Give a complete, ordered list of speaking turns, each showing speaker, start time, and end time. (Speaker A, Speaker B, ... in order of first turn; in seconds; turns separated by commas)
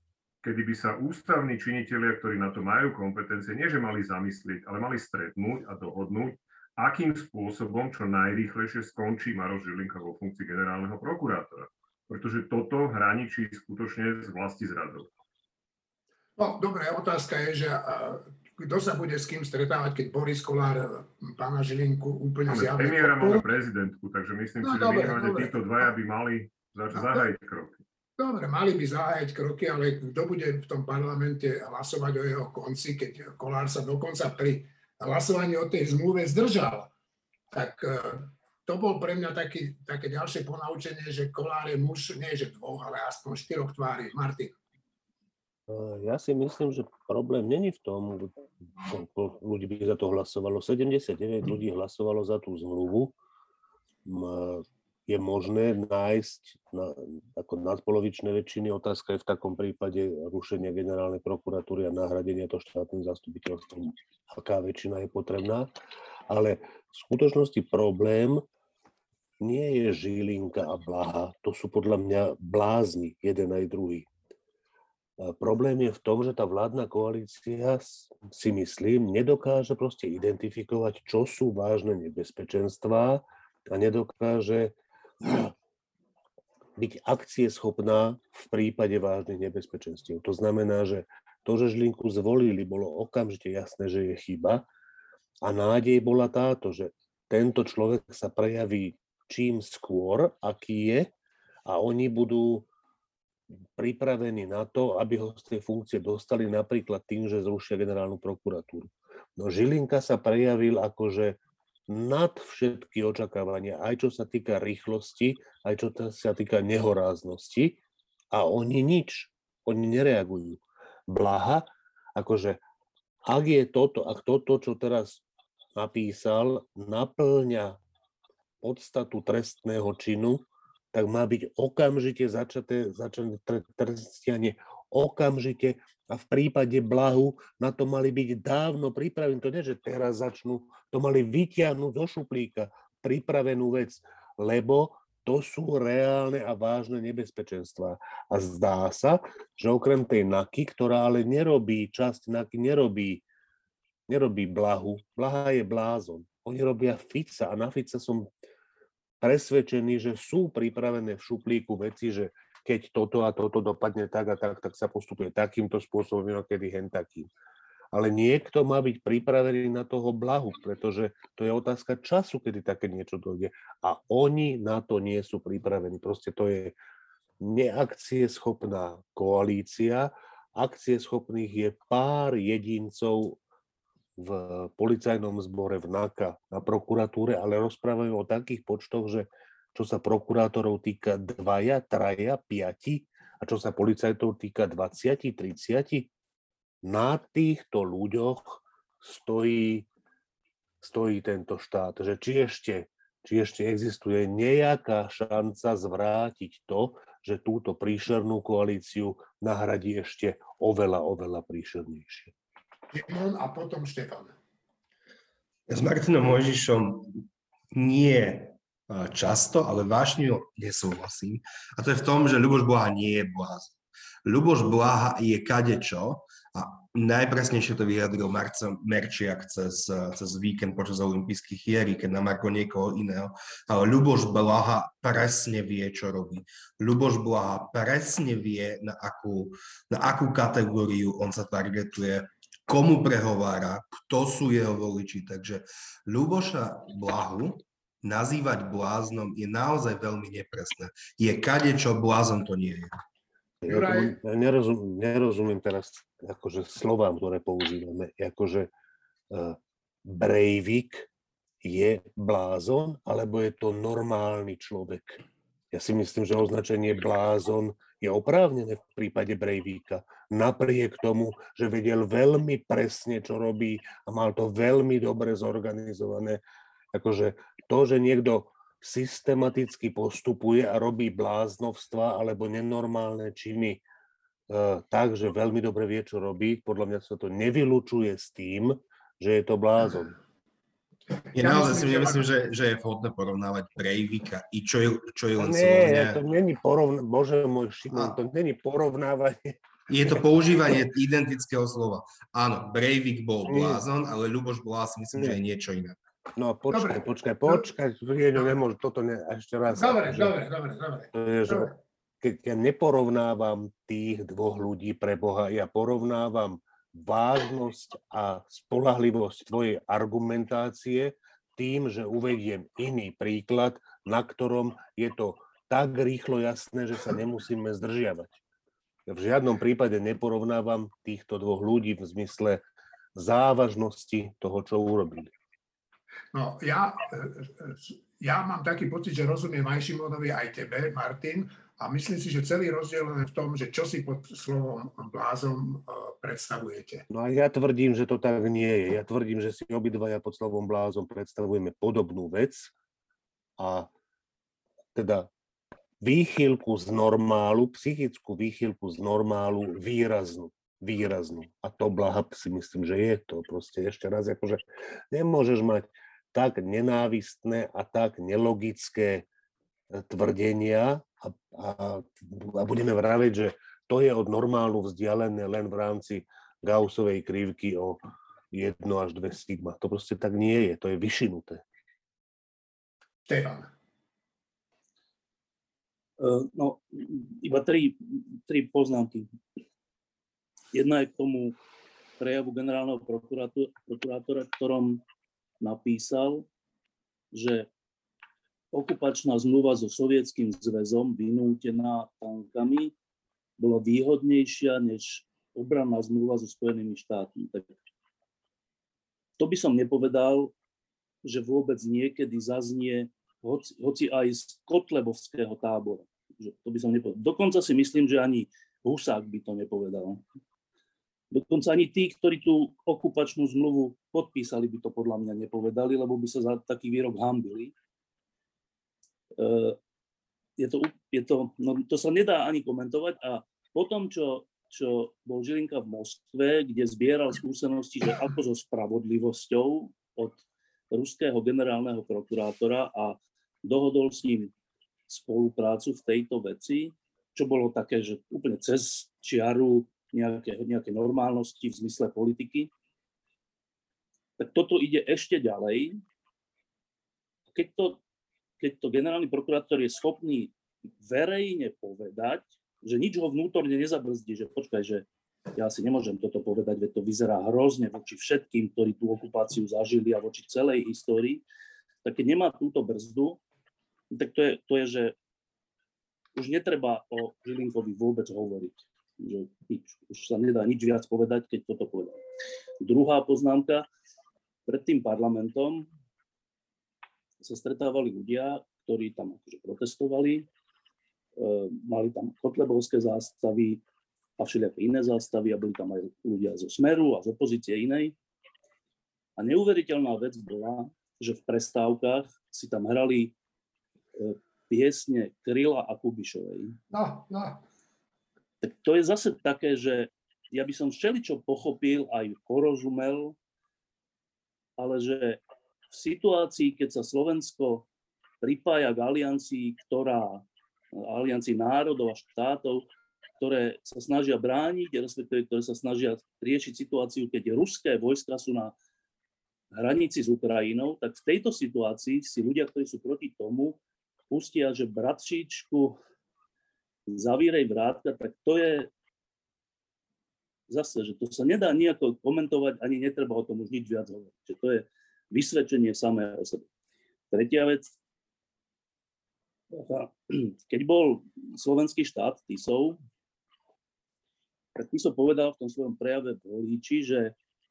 Speaker A: 0.4-15.1, Speaker B: 16.4-23.4, Speaker A: 22.5-27.8, Speaker B: 24.6-25.9, Speaker B: 26.9-27.2, Speaker B: 28.2-36.9, Speaker B: 37.5-44.5, Speaker C: 45.7-53.1, Speaker C: 54.1-65.7, Speaker C: 66.3-68.4, Speaker C: 69.4-74.1, Speaker C: 75.2-85.5, Speaker C: 86.8-94.6, Speaker C: 95.4-101.1, Speaker C: 101.7-102.7, Speaker C: 103.8-117.8, Speaker C: 118.3-122.6, Speaker C: 123.3-125.2, Speaker C: 125.8-127.8, Speaker C: 128.6-153.2, Speaker C: 154.1-158.3, Speaker C: 159.2-167.3, Speaker C: 167.9-176.8, Speaker C: 177.4-183.4, Speaker C: 184.2-196.1, Speaker C: 196.8-199.9, Speaker C: 200.8-212.3, Speaker B: 212.9-214.3, Speaker D: 215.7-252.9, Speaker C: 253.6-258.7, Speaker B: 253.7-254.2, Speaker C: 259.3-261.1, Speaker C: 261.6-265.2, Speaker C: 265.7-276.4, Speaker C: 276.9-283.8, Speaker C: 284.5-290.2, Speaker D: 291.3-296.2, Speaker B: 291.4-292.3, Speaker C: 295.4-299.6, Speaker D: 299.9-306.0, Speaker C: 303.5-303.8, Speaker C: 306.4-310.4, Speaker B: 306.7-307.6, Speaker B: 309.7-311.8, Speaker C: 311.1-328.4, Speaker C: 329.1-335.3, Speaker B: 336.3-347.1, Speaker C: 347.1-352.7, Speaker C: 353.6-353.9, Speaker C: 354.9-355.3, Speaker C: 356.0-369.3, Speaker C: 369.9-378.0, Speaker C: 378.5-381.6, Speaker B: 383.3-383.7, Speaker E: 386.2-389.3, Speaker E: 390.7-391.6, Speaker E: 392.2-395.0, Speaker E: 395.6-396.5, Speaker E: 397.3-397.7, Speaker E: 398.7-402.9, Speaker E: 403.6-407.8, Speaker E: 409.4-410.5, Speaker E: 411.2-420.2, Speaker E: 421.3-427.7, Speaker E: 429.4-429.8, Speaker E: 430.6-444.5, Speaker E: 445.1-452.7, Speaker E: 454.4-456.0, Speaker E: 457.5-458.0, Speaker E: 458.6-471.4, Speaker E: 472.0-473.4, Speaker E: 474.1-475.1, Speaker E: 476.4-482.2, Speaker E: 482.8-483.9, Speaker E: 484.7-485.9, Speaker E: 487.4-490.5, Speaker E: 491.4-493.8, Speaker E: 494.4-498.2, Speaker E: 499.4-503.4, Speaker E: 504.2-506.8, Speaker B: 506.9-507.6, Speaker E: 508.6-513.4, Speaker E: 514.8-517.9, Speaker E: 518.4-520.4, Speaker E: 521.0-522.9, Speaker E: 523.4-528.8, Speaker E: 529.8-536.0, Speaker E: 537.1-538.9, Speaker E: 540.7-546.7, Speaker E: 547.3-548.0, Speaker E: 549.7-553.0, Speaker E: 554.8-557.4